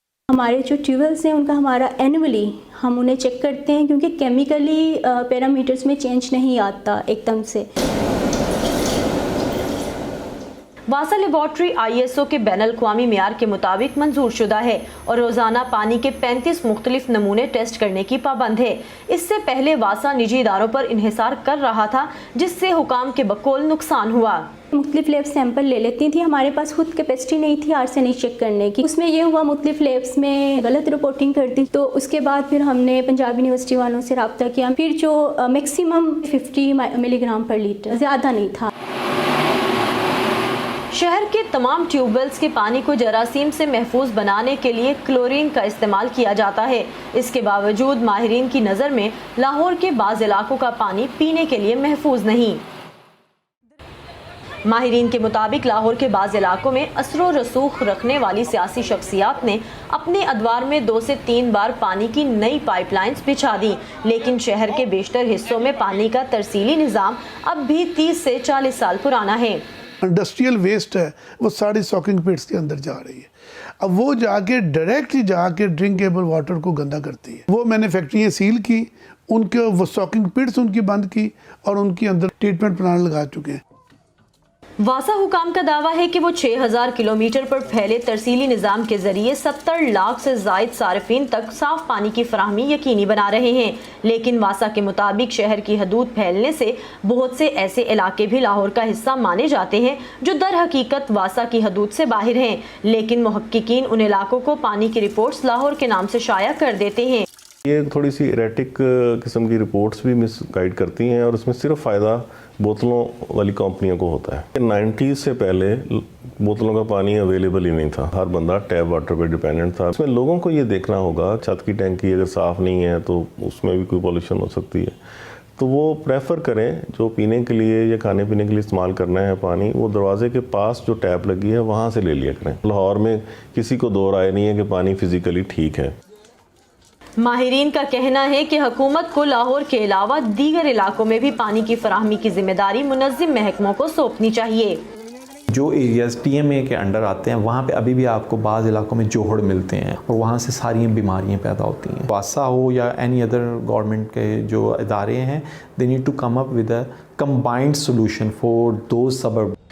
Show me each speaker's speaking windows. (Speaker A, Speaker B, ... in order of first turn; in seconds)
Speaker A: 0.3-7.6, 24.7-38.7
Speaker B: 10.9-24.5, 40.9-52.6, 54.6-69.6, 84.8-107.2, 137.2-144.8
Speaker C: 70.0-83.6
Speaker D: 107.6-124.9, 125.6-135.9
Speaker E: 145.5-159.6